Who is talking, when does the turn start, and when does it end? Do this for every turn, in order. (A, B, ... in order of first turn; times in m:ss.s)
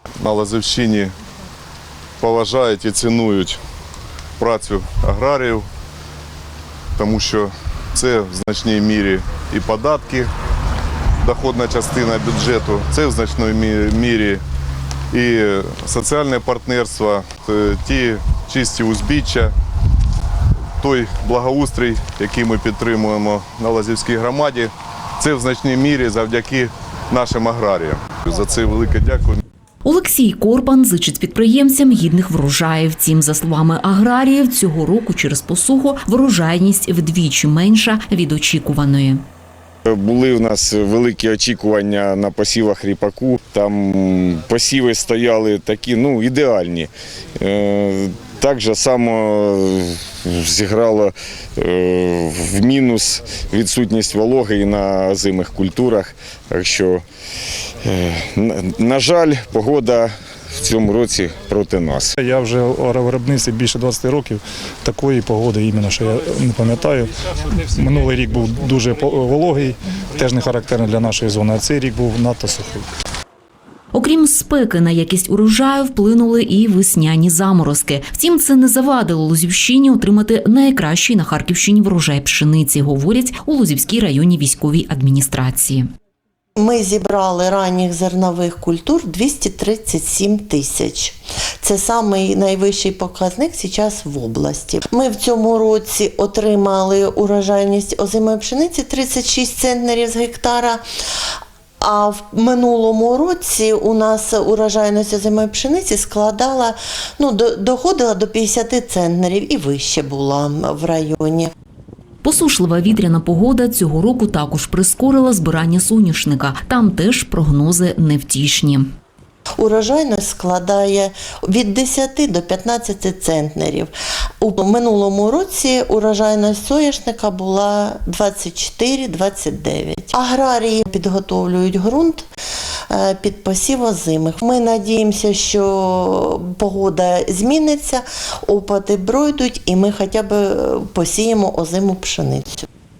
0:00.2-0:01.1 A
0:02.2-0:03.6 A
0:04.4-0:05.7 A
0:07.0-0:10.3 A
0:11.2-0:14.4 A
0:15.1-0:19.5 A
0:20.8-0:29.4 A
0:29.8-0:39.2 B
0:39.9-0:57.0 C
0:57.8-1:02.1 C
1:02.2-1:12.8 D
1:13.9-1:25.9 B
1:26.6-1:40.8 E
1:41.8-1:51.5 E
1:52.2-1:58.9 B
1:59.6-2:12.3 E
2:12.9-2:22.7 E